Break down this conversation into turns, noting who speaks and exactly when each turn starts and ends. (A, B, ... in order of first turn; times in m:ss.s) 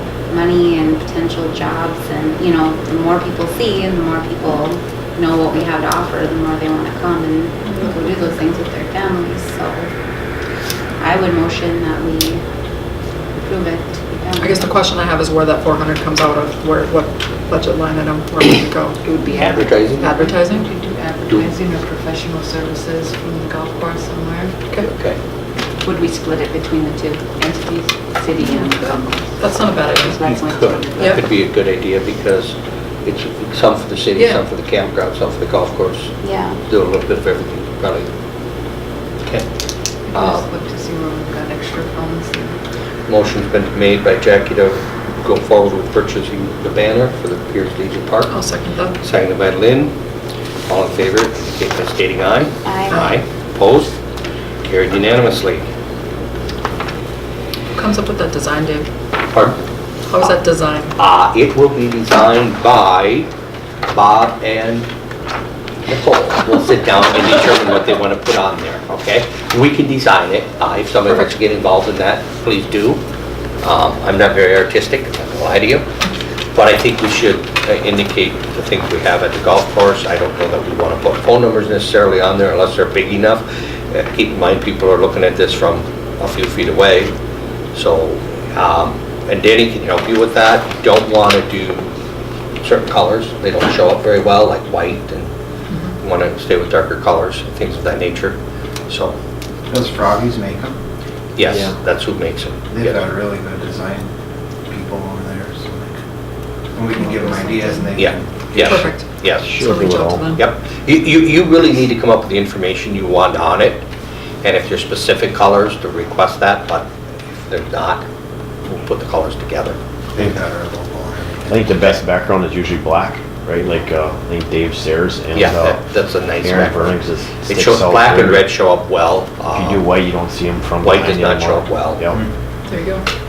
0:00.3-0:09.9 A
0:11.0-0:12.4 A
0:13.4-0:14.7 A
0:14.4-0:19.0 B
0:19.1-0:24.5 C
0:19.3-0:20.1 D
0:20.0-0:20.7 B
0:21.3-0:21.5 D
0:24.8-0:25.2 D
0:25.8-0:31.3 E
0:28.4-0:30.2 B
0:30.2-0:38.1 D
0:34.2-0:34.4 B
0:36.2-0:36.6 A
0:39.2-0:39.5 D
0:40.1-0:42.6 C
0:40.1-0:40.5 D
0:43.1-0:48.3 D
0:48.3-0:49.0 B
0:49.0-0:49.9 D
0:50.7-0:54.0 D
0:52.6-0:53.1 A
0:54.6-0:55.6 D
0:57.8-0:58.9 B
0:59.3-0:59.6 D
1:00.1-1:01.0 B
1:01.0-1:03.3 D
1:03.9-1:04.9 D
1:05.9-1:13.0 D
1:13.6-1:15.9 D
1:16.5-1:27.1 D
1:27.7-1:31.9 D
1:32.6-1:35.3 D
1:36.0-1:39.2 D
1:39.7-1:40.8 F
1:41.4-1:43.1 D
1:41.4-1:41.8 G
1:42.7-1:44.1 F
1:44.7-1:46.0 F
1:46.7-1:48.8 F
1:48.0-1:49.6 D
1:48.6-1:50.4 B
1:49.4-1:50.4 G
1:50.4-1:53.8 D
1:54.4-1:58.0 D
1:58.7-1:59.8 D
2:00.1-2:01.7 F
2:01.5-2:08.5 G
2:05.3-2:09.9 D
2:09.5-2:12.2 G
2:10.8-2:12.1 D
2:12.7-2:13.0 B